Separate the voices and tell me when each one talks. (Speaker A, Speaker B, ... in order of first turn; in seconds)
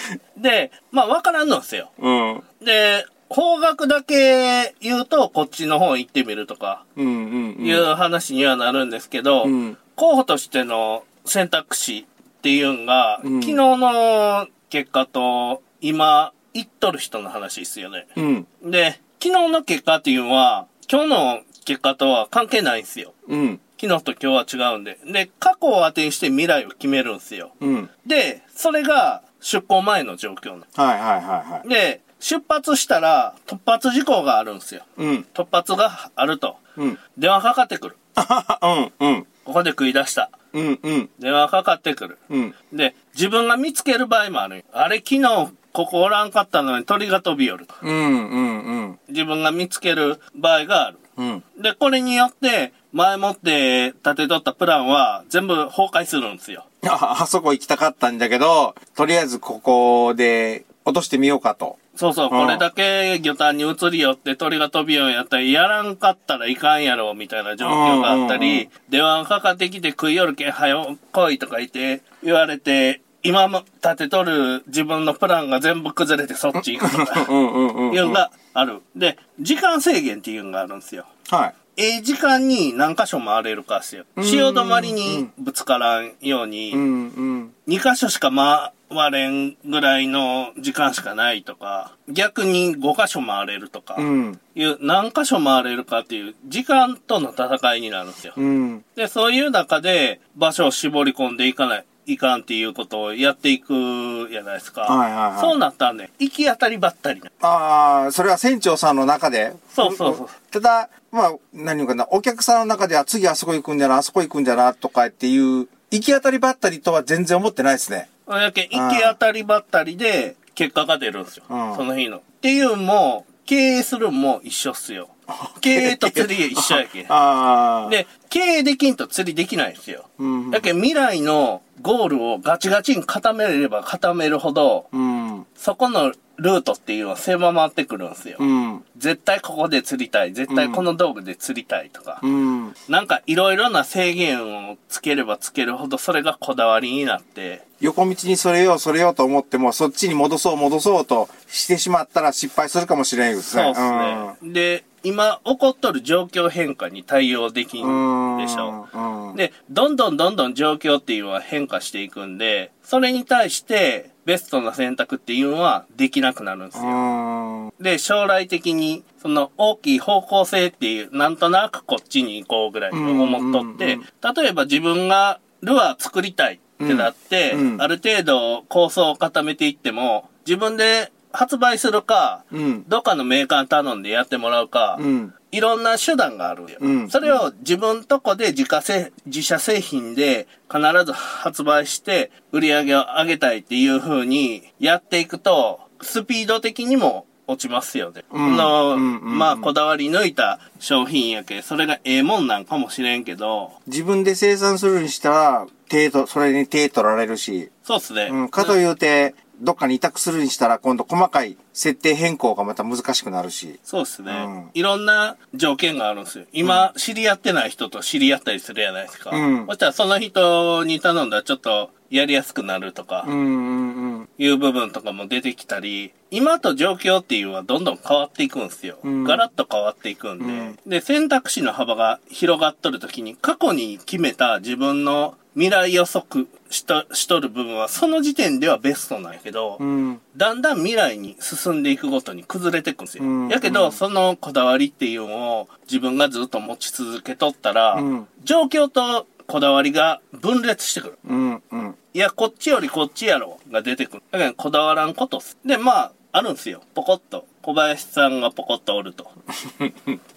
Speaker A: 0.3-1.9, 2.6-6.8, 7.6-23.1, 23.8-30.6, 31.6-36.6, 37.1-38.0, 39.4-40.3, 41.2-47.7, 49.1-51.0, 51.5-56.6, 61.9-77.3, 77.9-81.1, 81.8-86.8, 87.7-98.4, 99.0-107.3, 109.7-110.3, 118.3-127.1, 127.8-134.9, 135.6-138.4, 138.9-142.2, 142.9-147.6, 153.5-158.7, 159.3-167.0, 167.8-203.7, 207.8-208.8, 213.8-223.3, 224.4-239.8, 240.3-251.2, 252.1-259.3
Speaker B: 2.0-2.4, 7.0-7.8, 9.4-9.8, 13.2-13.6, 18.1-18.5, 23.3-23.6, 27.6-27.9, 30.7-31.6, 35.0-35.2, 38.1-39.3, 40.5-41.1, 42.3-42.5, 47.8-49.0, 51.2-51.4, 56.8-61.8, 62.3-62.6, 67.6-68.7, 76.6-78.2, 81.3-81.5, 84.2-85.3, 86.7-87.5, 94.0-94.4, 98.3-98.8, 104.8-105.6, 107.4-118.1, 118.7-119.2, 121.5-121.8, 125.3-128.0, 130.2-130.7, 134.9-135.4, 138.4-138.8, 140.5-140.8, 142.2-142.7, 147.8-154.3, 157.8-159.4, 166.7-167.7, 172.9-174.0, 176.8-177.8, 182.5-182.9, 184.9-185.3, 186.8-187.4, 198.3-199.7, 203.8-207.7, 208.3-214.7, 216.6-216.9, 219.3-219.7, 223.2-224.3, 229.0-229.4, 230.4-230.8, 239.8-240.2, 243.2-244.0, 247.9-248.3, 251.2-252.0, 259.6-260.2